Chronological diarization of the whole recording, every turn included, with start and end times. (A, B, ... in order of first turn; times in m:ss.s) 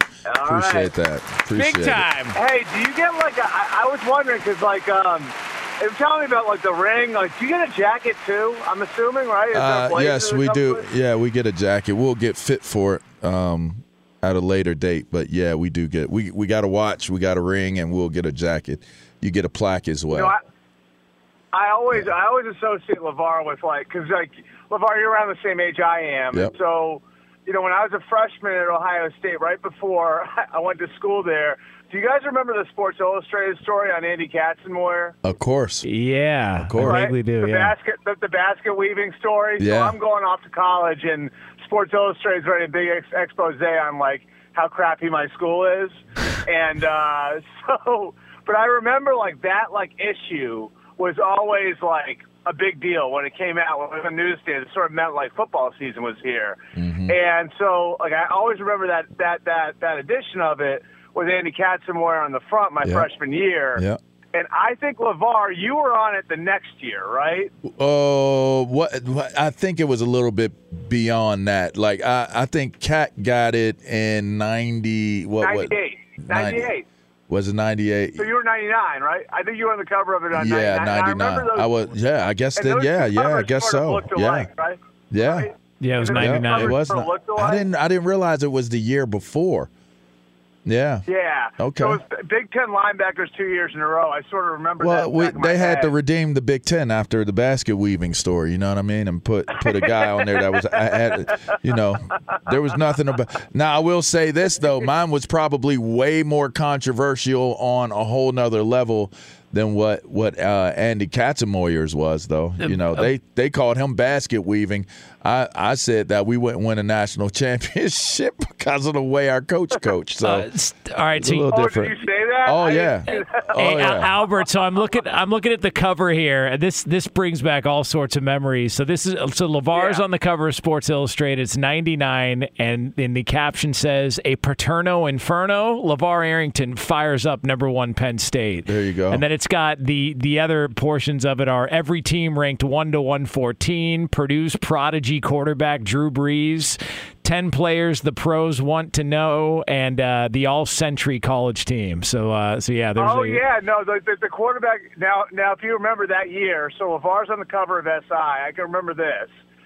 0:00.2-0:00.9 A
0:00.4-0:02.1 B
0:01.5-0:02.4 C
0:02.4-0:10.8 A
0:09.5-0:20.3 B
0:20.1-0:20.4 A
0:21.5-0:35.1 A
0:35.2-0:35.9 B
0:35.9-0:37.7 C
0:36.6-0:37.1 B
0:36.8-1:03.8 A
0:39.6-0:39.9 B
0:56.8-0:57.2 B
1:04.3-1:07.5 A
1:07.6-1:16.7 B
1:15.4-1:16.8 A
1:17.3-1:18.3 B
1:18.2-1:21.7 A
1:20.3-1:24.5 B
1:22.6-1:27.6 A
1:25.1-1:25.5 B
1:25.8-1:26.8 C
1:26.1-1:29.7 B
1:30.6-1:31.1 B
1:31.1-1:35.9 A
1:31.6-1:32.0 B
1:34.8-2:00.5 B
1:39.6-1:41.3 A
1:52.6-1:53.1 C
2:00.2-2:01.5 C
2:01.2-2:04.1 B
2:01.5-2:03.6 A
2:03.1-2:33.4 C
2:09.7-2:10.0 A
2:18.6-2:19.2 B
2:33.0-2:39.3 A